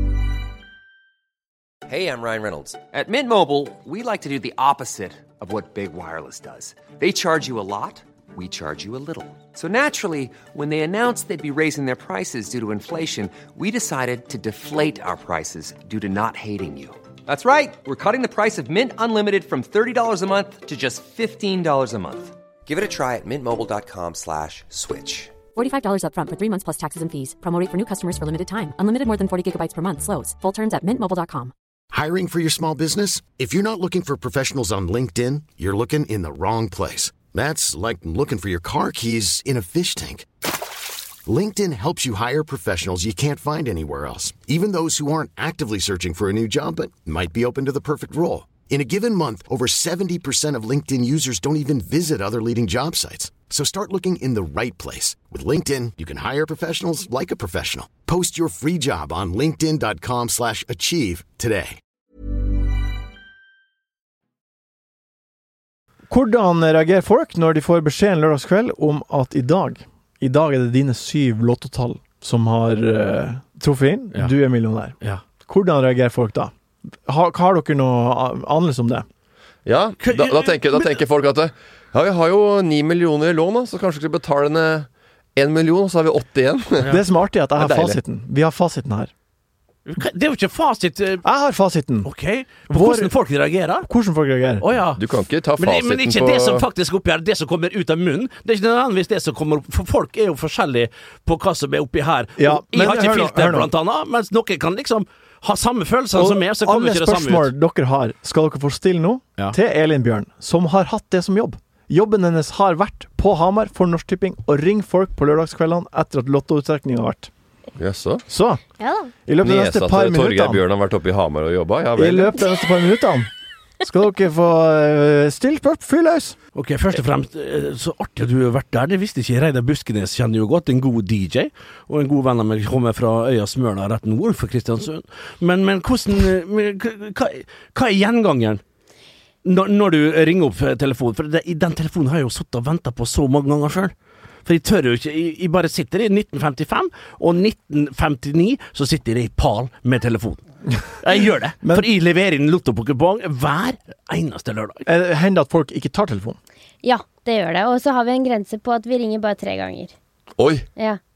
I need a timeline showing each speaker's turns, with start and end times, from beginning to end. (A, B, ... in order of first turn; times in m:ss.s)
0:01.9-0:25.3 A
0:25.5-0:31.5 B
0:31.9-0:40.3 C
0:41.2-1:01.8 C
1:06.1-1:16.5 D
1:17.0-1:19.0 D
1:19.6-1:27.0 E
1:20.0-1:20.9 F
1:26.9-1:29.1 D
1:27.6-1:28.0 E
1:29.9-1:31.2 F
1:31.2-1:32.1 D
1:32.0-1:33.9 F
1:32.7-1:33.1 D
1:33.8-1:34.6 D
1:34.6-1:35.0 F
1:34.9-1:36.6 E
1:35.6-1:47.5 F
1:42.4-1:43.7 D
1:46.1-1:57.3 D
1:57.8-1:58.2 E
1:58.3-1:58.6 D
1:59.2-2:00.6 D
1:59.4-2:02.4 E
2:02.0-2:03.3 D
2:03.8-2:06.4 D
2:06.5-2:18.6 F
2:19.4-2:23.9 F
2:24.4-2:30.4 F
2:31.0-2:34.8 F
2:34.8-2:36.4 D
2:36.8-2:39.9 G
2:40.4-2:40.6 E